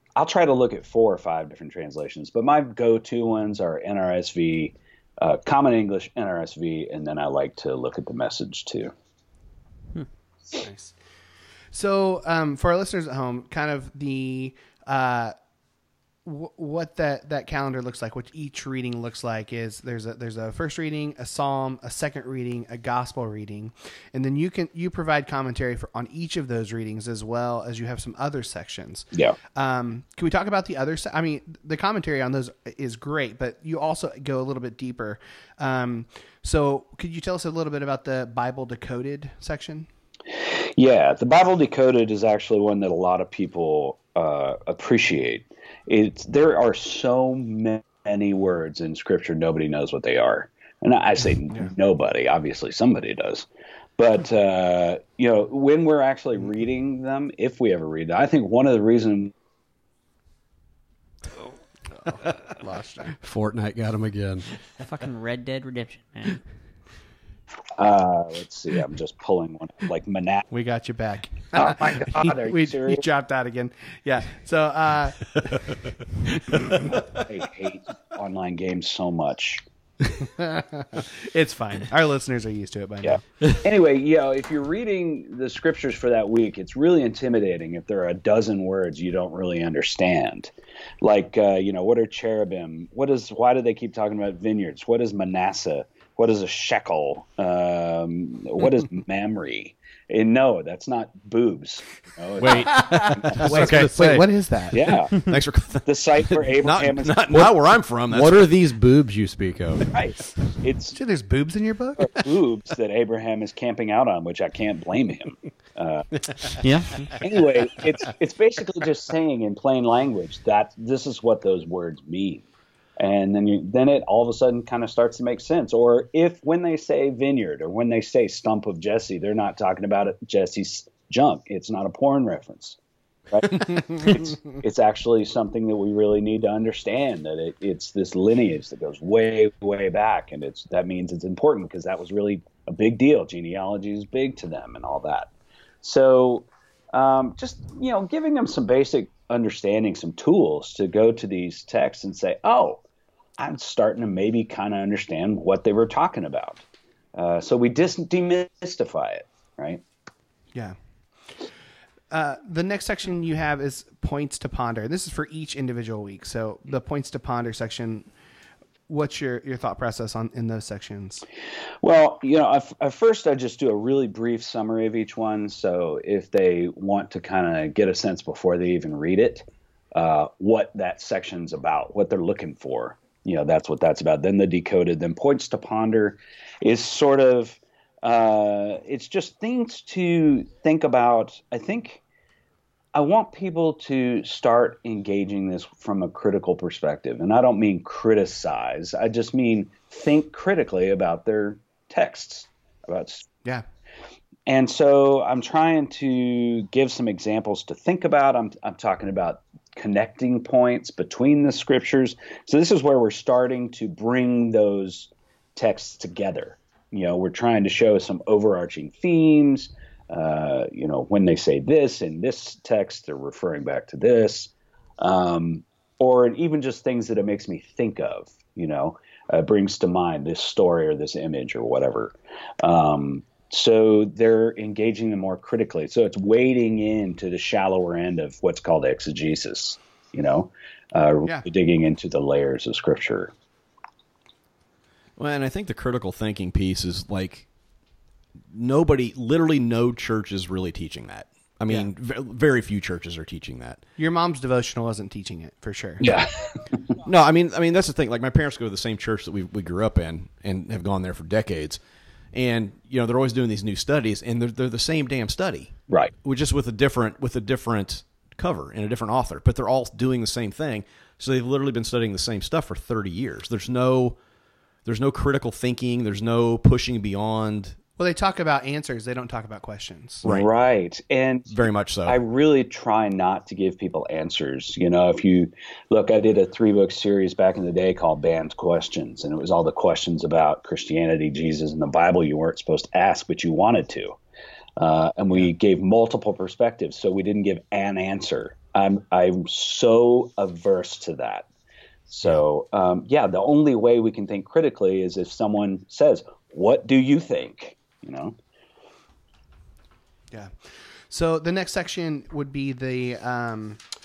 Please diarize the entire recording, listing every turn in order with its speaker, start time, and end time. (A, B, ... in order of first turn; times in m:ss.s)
0:00.2-0:08.9 A
0:10.6-0:10.9 B
0:11.7-0:15.3 B
0:16.2-0:39.9 B
0:40.4-0:53.5 A
0:54.0-0:59.3 A
1:02.0-1:03.1 B
1:03.2-1:04.4 C
1:04.8-1:06.4 D
1:07.8-1:10.5 A
1:10.5-1:15.7 B
1:11.5-1:13.0 A
1:17.1-1:19.6 A
1:20.2-1:23.2 B
1:23.0-1:43.7 A
1:42.4-1:48.8 E
1:42.8-1:44.8 B
1:44.7-1:45.2 A
1:45.8-1:47.5 A
1:48.1-1:49.8 C
1:49.9-1:51.0 A
1:50.9-1:52.3 B
1:52.0-1:56.1 A
1:56.6-1:56.9 D
1:57.2-2:02.4 A
2:03.0-2:12.8 A
2:13.3-2:25.3 A
2:25.8-2:32.8 A
2:33.4-2:36.6 A
2:37.1-2:39.8 A
2:42.1-2:48.1 B
2:48.9-2:51.2 B
2:51.8-3:12.0 A
3:12.9-3:23.3 A
3:24.4-4:03.3 A
4:05.2-4:07.5 E
4:08.5-4:13.8 E
4:14.0-4:16.1 B
4:16.0-4:16.3 A
4:17.0-4:21.8 E
4:22.3-4:25.7 E
4:26.2-4:34.2 E
4:34.8-4:37.8 E
4:38.0-4:40.2 B
4:40.2-4:54.2 A
4:41.5-4:42.2 E
4:54.8-5:01.5 A
5:02.1-5:08.4 A
5:10.3-5:10.6 B
5:11.1-5:13.8 B